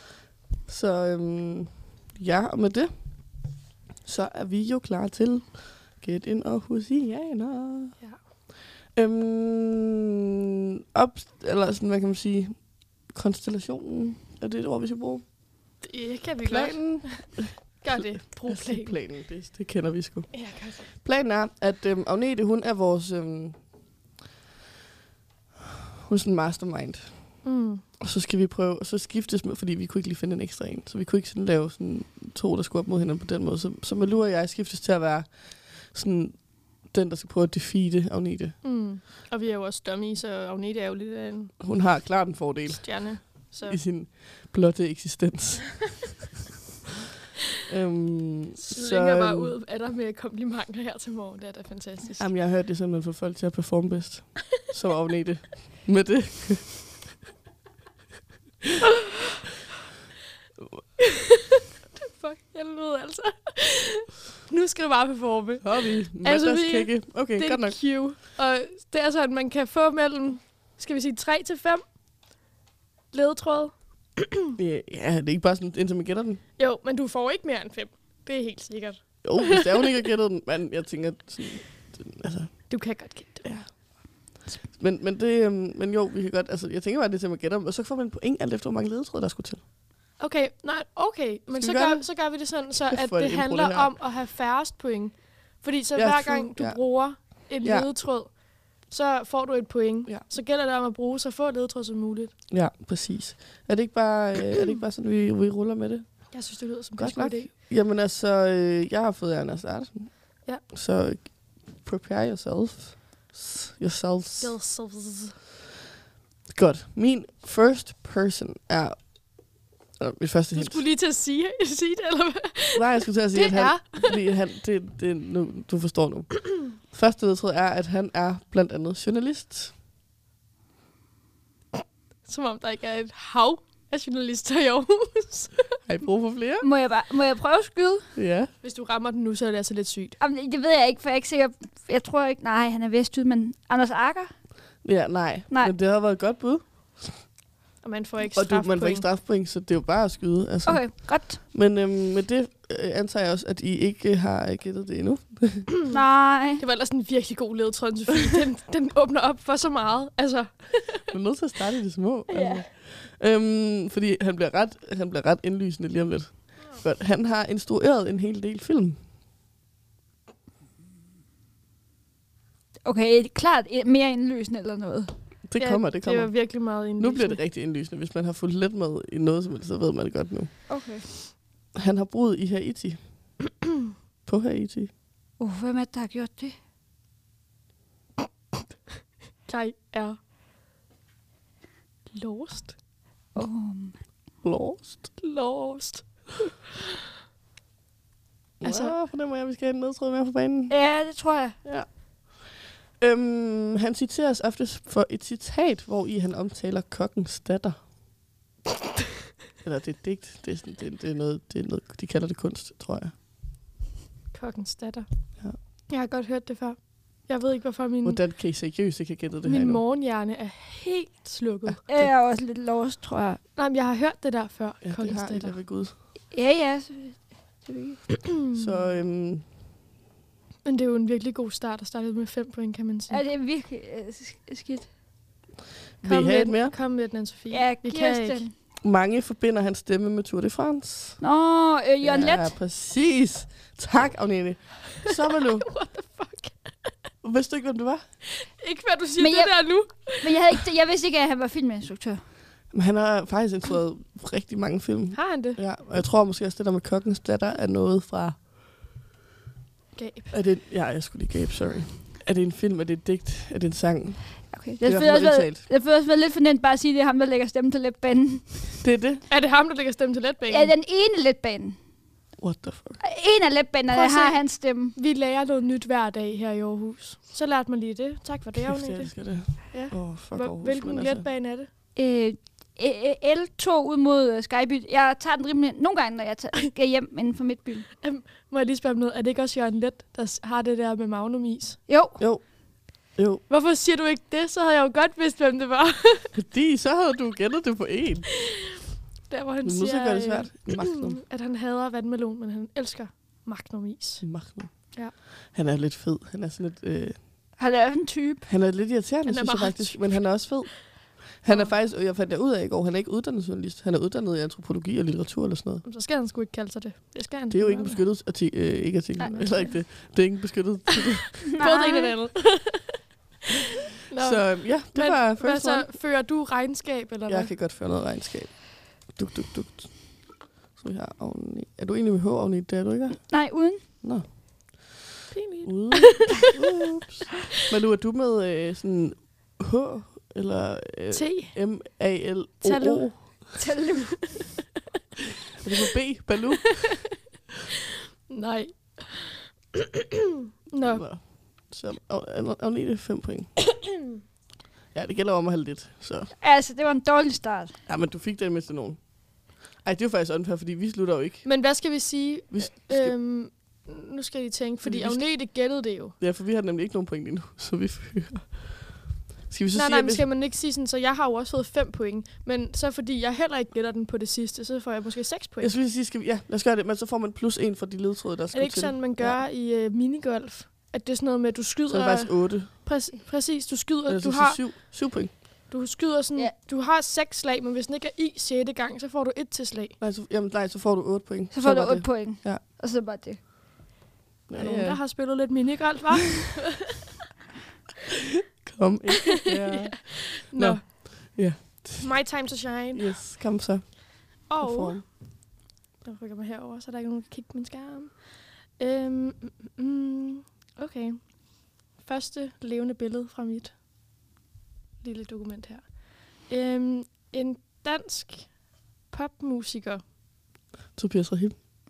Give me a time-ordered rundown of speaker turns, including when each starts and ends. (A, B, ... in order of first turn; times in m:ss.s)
0:00.7-0:03.3 A
0:04.0-0:08.0 A
0:08.9-0:10.2 A
0:10.8-0:15.2 A
0:15.8-0:19.0 B
0:16.4-0:23.6 A
0:20.3-0:20.9 B
0:26.1-0:27.4 A
0:27.4-0:27.8 B
0:28.0-0:38.6 A
0:38.6-0:41.6 B
0:41.6-0:46.1 A
0:42.7-0:43.8 B
0:47.7-0:49.6 A
0:48.6-0:52.3 B
0:52.2-0:56.9 A
1:01.0-1:01.4 B
1:01.9-1:11.8 B
1:05.6-1:07.9 A
1:13.1-1:14.2 B
1:14.6-1:16.4 A
1:16.6-1:19.6 B
1:19.2-1:29.6 A
1:22.7-1:23.6 B
1:30.2-1:42.3 B
1:31.5-1:34.0 A
1:36.0-1:37.9 A
1:42.5-1:54.6 A
1:46.3-1:47.5 B
1:54.4-1:55.4 B
1:56.5-2:00.8 A
2:00.5-2:04.2 B
2:02.8-2:09.8 A
2:12.2-2:15.8 B
2:15.9-2:16.7 A
2:16.6-2:18.1 C
2:18.2-2:18.5 A
2:18.6-2:20.2 B
2:20.2-2:24.3 C
2:24.8-2:27.2 A
2:27.8-2:29.1 B
2:28.4-2:35.7 A
2:30.7-2:31.4 C
2:35.9-2:36.6 C
2:36.6-2:41.0 B
2:41.1-2:49.0 A
2:52.8-2:55.1 C
2:55.4-3:00.5 A
2:55.6-2:57.4 B
3:00.7-3:01.1 C
3:01.8-3:03.0 A
3:04.3-3:04.9 A
3:05.4-3:06.6 C
3:09.5-3:10.2 B
3:12.1-3:12.8 B
3:13.4-3:14.0 C
3:14.4-3:15.1 A
3:15.2-3:16.3 B
3:18.6-3:21.1 A
3:18.6-3:19.0 B
3:20.7-3:21.6 C
3:21.6-3:27.9 A
3:29.6-3:33.1 A
3:34.3-3:35.1 B
3:35.8-3:38.2 B
3:38.0-3:39.8 A
3:39.4-3:41.8 B
3:41.7-3:42.1 A
3:41.9-3:43.4 C
3:43.6-3:45.6 B
3:44.8-3:45.9 A
3:46.3-3:48.2 C
3:48.5-3:48.9 B
3:48.6-3:49.4 A
3:50.6-3:53.2 B
3:53.1-3:54.9 C
3:56.0-3:56.8 A
3:56.0-3:58.4 B
3:57.5-3:58.5 C
3:58.8-4:01.2 A
4:01.2-4:02.6 C
4:02.0-4:05.7 A
4:05.5-4:06.9 B
4:07.2-4:08.0 A
4:08.5-4:10.5 B
4:09.2-4:12.2 C
4:12.7-4:18.4 A
4:15.1-4:15.6 B
4:20.0-4:20.3 B
4:20.3-4:25.6 A
4:24.5-4:28.8 C
4:28.8-4:29.2 A
4:29.3-4:30.7 B
4:30.5-4:31.8 C
4:32.4-4:33.0 A
4:33.0-4:35.0 C
4:33.9-4:41.7 B
4:38.6-4:41.3 A
4:42.0-4:47.9 C
4:48.0-4:51.8 B
4:51.9-4:52.2 C
4:52.2-4:53.4 A
4:53.5-4:56.3 B
4:56.3-4:58.3 A
4:59.3-5:04.3 B
4:59.6-5:01.2 A
5:04.2-5:07.2 A
5:07.6-5:08.5 C
5:08.5-5:15.8 A
5:09.3-5:10.5 B
5:15.8-5:18.0 B
5:17.5-5:21.5 A
5:19.2-5:19.7 C
5:21.6-5:23.1 B
5:21.6-5:22.1 C
5:24.1-5:27.6 B
5:24.2-5:25.9 A
5:27.3-5:35.0 A
5:33.3-5:33.8 C
5:35.3-5:36.4 B
5:35.6-5:43.4 A
5:41.1-5:41.6 B
5:42.6-5:43.6 B
5:43.6-5:44.5 C
5:45.6-5:47.2 A
5:48.3-5:50.0 B
5:50.7-5:51.1 B
5:50.8-5:53.6 A
5:54.9-5:56.3 A
5:56.4-5:57.8 C
5:57.9-6:01.5 A
6:01.4-6:06.2 B
6:02.5-6:03.2 A
6:04.8-6:05.5 A
6:06.2-6:10.3 A
6:09.7-6:15.7 B
6:15.6-6:19.4 A
6:18.5-6:24.7 B
6:21.9-6:22.7 A
6:24.1-6:25.4 A
6:25.7-6:30.0 B
6:30.0-6:32.6 A
6:31.5-6:33.4 C
6:34.5-6:35.0 A
6:34.6-6:36.8 B
6:38.6-6:45.1 A
6:39.5-6:43.2 B
6:44.5-6:53.8 B
6:55.0-7:00.0 B
7:01.0-7:01.6 A